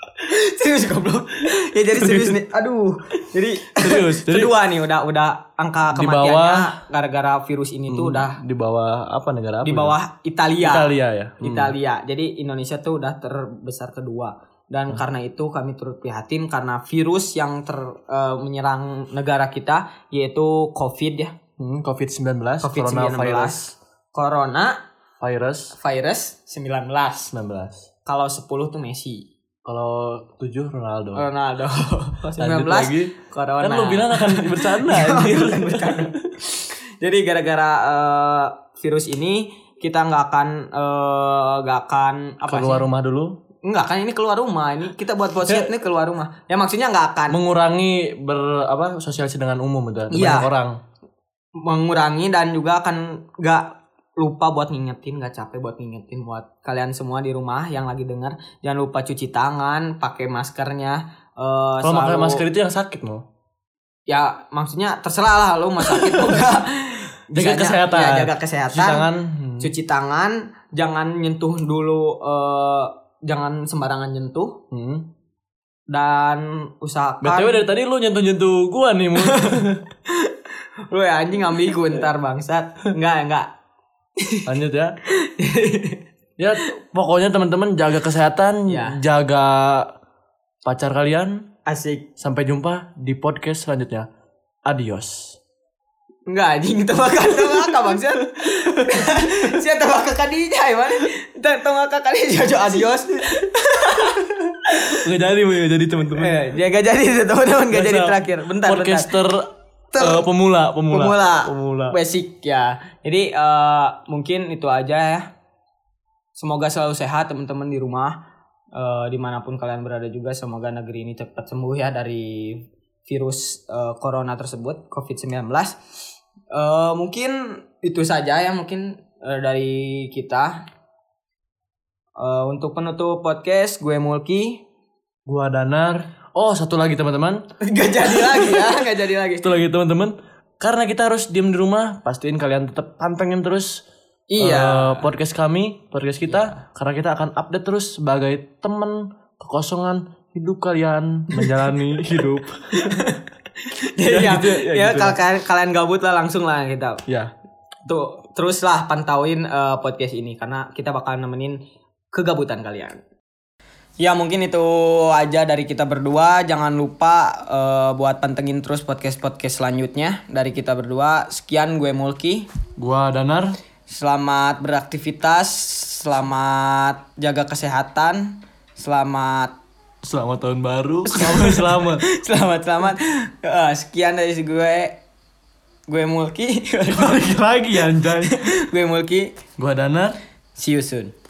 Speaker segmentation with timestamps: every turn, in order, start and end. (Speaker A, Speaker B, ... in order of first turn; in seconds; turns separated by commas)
Speaker A: 0.2-8.4, Speaker B: 2.0-2.4, Speaker B: 3.7-4.5, Speaker B: 5.9-6.7, Speaker B: 7.9-9.9, Speaker A: 9.6-10.9, Speaker B: 10.6-11.8, Speaker A: 11.4-21.4, Speaker B: 21.6-23.8, Speaker A: 22.6-23.6, Speaker A: 24.1-24.8, Speaker B: 25.2-25.8, Speaker A: 25.8-27.3, Speaker B: 27.3-27.9, Speaker A: 28.1-29.3, Speaker B: 29.6-31.3, Speaker A: 31.1-42.9, Speaker B: 32.4-36.3, Speaker B: 42.5-43.3, Speaker A: 43.6-47.4, Speaker B: 45.5-45.7, Speaker B: 47.3-50.8, Speaker A: 50.1-50.5, Speaker A: 51.6-62.4, Speaker B: 61.8-63.2, Speaker A: 64.1-69.0, Speaker B: 65.8-66.5, Speaker B: 67.3-69.7, Speaker A: 69.6-74.6, Speaker B: 74.7-75.1, Speaker A: 75.9-77.6, Speaker B: 77.2-79.8, Speaker A: 79.2-83.5, Speaker A: 84.2-84.5, Speaker B: 84.5-85.0, Speaker A: 85.1-86.0, Speaker B: 86.4-89.9, Speaker A: 88.7-89.0, Speaker B: 90.6-91.5, Speaker A: 91.7-92.1, Speaker B: 92.2-94.1, Speaker B: 94.7-95.4, Speaker A: 96.3-105.0, Speaker B: 97.3-99.6, Speaker B: 104.8-106.4, Speaker A: 106.2-109.1, Speaker B: 107.7-112.0, Speaker A: 109.9-110.3, Speaker A: 110.9-115.3, Speaker A: 116.4-118.2, Speaker A: 118.8-125.8, Speaker A: 126.5-130.5, Speaker A: 132.2-134.6, Speaker B: 135.3-137.4, Speaker A: 137.6-139.5, Speaker B: 138.0-138.8, Speaker B: 139.4-143.8, Speaker A: 144.3-145.1, Speaker B: 144.4-153.0, Speaker A: 152.7-157.0, Speaker B: 154.1-155.2, Speaker B: 157.1-157.3, Speaker A: 157.9-161.6, Speaker A: 162.1-163.0, Speaker A: 164.0-172.5, Speaker B: 172.8-173.6, Speaker A: 173.9-179.6, Speaker B: 180.0-182.0, Speaker A: 181.1-185.0, Speaker A: 185.9-187.2, Speaker B: 186.9-188.5, Speaker A: 187.8-189.4, Speaker B: 189.6-190.2, Speaker A: 190.6-191.1